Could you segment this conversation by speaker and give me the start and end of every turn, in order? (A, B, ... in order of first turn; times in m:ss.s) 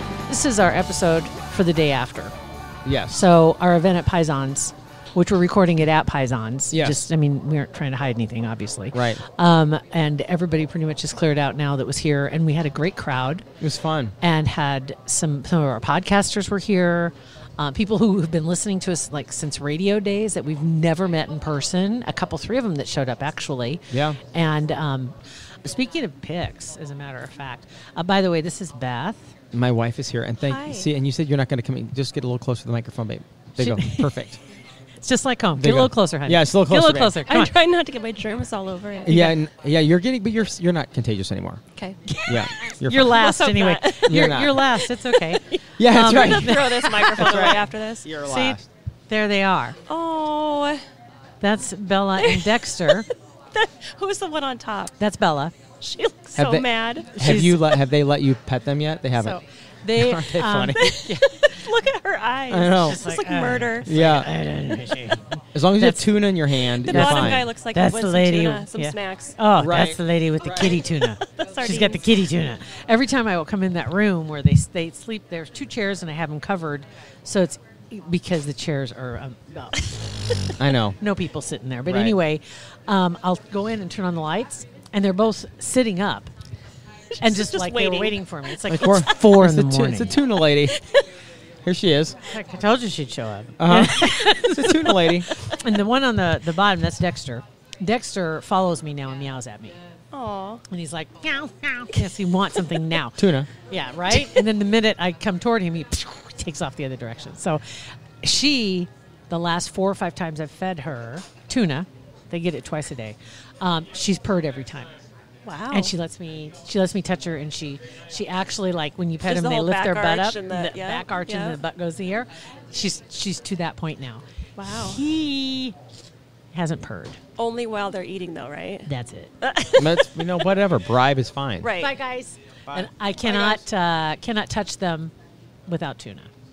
0:00.3-0:02.3 A
0:02.8-0:03.2 B
0:03.1-0:13.5 A
0:06.7-0:07.0 B
0:08.9-0:09.2 B
0:13.6-0:14.1 B
0:14.2-0:29.3 A
0:23.9-0:24.2 B
0:29.5-0:34.4 B
0:30.4-0:30.9 C
0:33.6-0:34.2 A
0:35.0-0:37.5 A
0:35.6-0:37.2 B
0:37.2-0:39.3 C
0:39.0-0:41.6 B
0:42.1-0:47.4 A
0:42.2-0:43.2 B
0:43.1-0:48.1 C
0:44.0-0:44.6 B
0:45.8-0:48.6 B
0:48.2-0:49.8 A
0:49.9-0:50.8 C
0:51.4-0:53.1 A
0:52.2-0:52.5 C
0:53.5-0:54.9 C
0:55.0-0:55.5 A
0:55.8-0:57.2 C
0:56.3-0:59.4 B
0:57.2-0:57.8 A
0:59.1-1:01.5 A
0:59.9-1:00.9 B
1:00.8-1:04.0 C
1:02.5-1:03.0 B
1:02.8-1:06.2 A
1:03.8-1:04.3 B
1:05.5-1:07.4 B
1:06.8-1:09.4 C
1:06.9-1:19.9 A
1:09.6-1:10.8 B
1:11.2-1:12.0 C
1:20.6-1:21.0 B
1:21.0-1:26.3 A
1:21.8-1:22.2 B
1:27.1-1:29.3 C
1:27.2-1:30.2 A
1:28.7-1:30.8 B
1:30.7-1:31.0 C
1:31.6-1:32.2 B
1:32.3-1:39.7 A
1:33.6-1:35.3 B
1:40.1-1:40.6 C
1:40.7-1:47.6 A
1:43.2-1:43.5 B
1:48.2-1:54.9 A
1:55.4-1:55.9 C
1:55.7-2:05.8 A
1:59.2-2:01.6 C
2:04.6-2:05.0 C
2:06.5-2:07.2 A
2:07.4-2:08.9 C
2:08.8-2:09.3 A
2:09.4-2:10.3 C
2:09.7-2:11.7 B
2:11.6-2:12.0 C
2:11.8-2:15.1 A
2:13.2-2:13.6 C
2:15.6-2:16.3 A